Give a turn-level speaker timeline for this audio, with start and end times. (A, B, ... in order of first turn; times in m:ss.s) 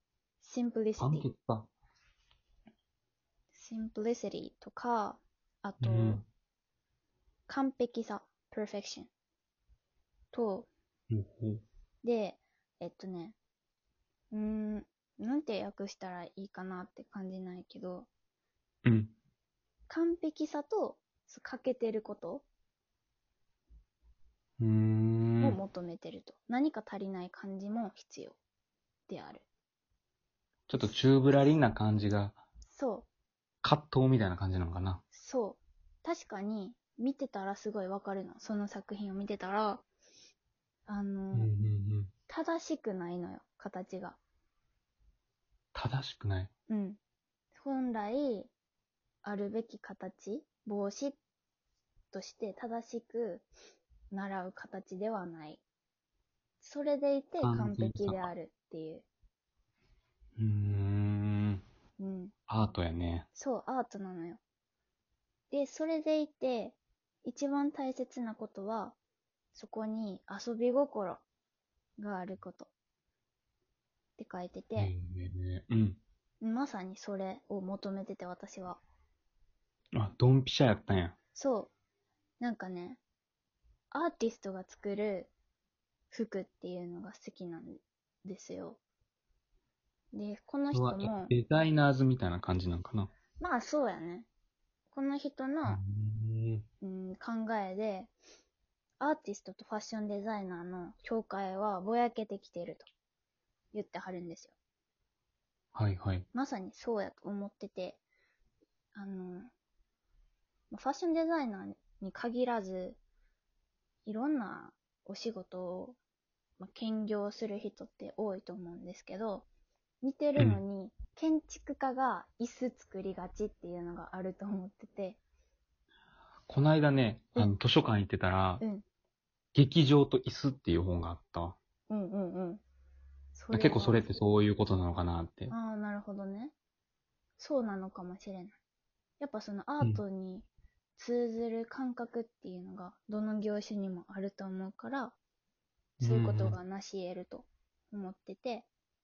0:00.4-0:01.3 A
0:01.0-0:01.7 B
0:03.5-0:06.2 A
0:05.8-0:06.2 B
0:07.5-0:09.1 A
0:10.3-0:10.7 A
0:11.1-0:11.6 B
0:12.0-0:13.4 A
0:14.3-0:18.1 A
0:18.8-0:19.1 B
0:19.9-0:22.4 A
0:24.6-0:25.6 B
0:25.4-0:28.4 A
0:29.1-0:29.4 A
0:30.7-0:32.4 B
0:32.7-0:33.1 A
0:33.6-0:35.0 B
0:35.1-0:39.8 A
0:40.9-0:41.5 A
0:41.3-0:42.1 B
0:42.3-0:44.2 A
0:45.7-0:46.5 B
0:46.7-0:47.0 A
0:47.6-0:48.5 A
0:49.2-0:51.2 A
0:52.1-0:53.5 A
0:54.1-0:55.6 A
0:56.6-0:59.1 A
0:57.4-0:58.3 B
1:00.4-1:01.6 B
1:02.0-1:02.3 A
1:02.5-1:03.3 B
1:03.4-1:04.4 A
1:05.5-1:09.0 A
1:09.5-1:11.2 A
1:12.0-1:12.7 A
1:14.2-1:14.9 A
1:14.8-1:16.0 B
1:16.4-1:18.8 A
1:20.0-1:21.2 B
1:21.4-1:21.7 A
1:22.4-1:23.0 A
1:23.9-1:25.3 A
1:26.1-1:28.8 A
1:30.1-1:31.3 A
1:30.7-1:33.1 B
1:33.4-1:34.3 A
1:34.9-1:35.8 A
1:35.7-1:36.6 B
1:36.8-1:38.1 A
1:39.0-1:42.9 A
1:43.7-1:44.5 A
1:45.7-1:46.3 B
1:46.3-1:48.0 A
1:49.0-1:49.5 A
1:50.7-1:53.0 A
1:54.0-1:56.0 A
1:56.6-1:59.5 A
2:00.0-2:05.2 A
2:00.4-2:00.6 B
2:06.5-2:08.6 B
2:09.5-2:11.6 B
2:11.9-2:12.6 A
2:13.4-2:14.2 A
2:13.5-2:15.5 B
2:15.5-2:16.5 A
2:17.4-2:18.6 A
2:19.2-2:25.2 A
2:26.0-2:28.7 A
2:26.0-2:26.6 B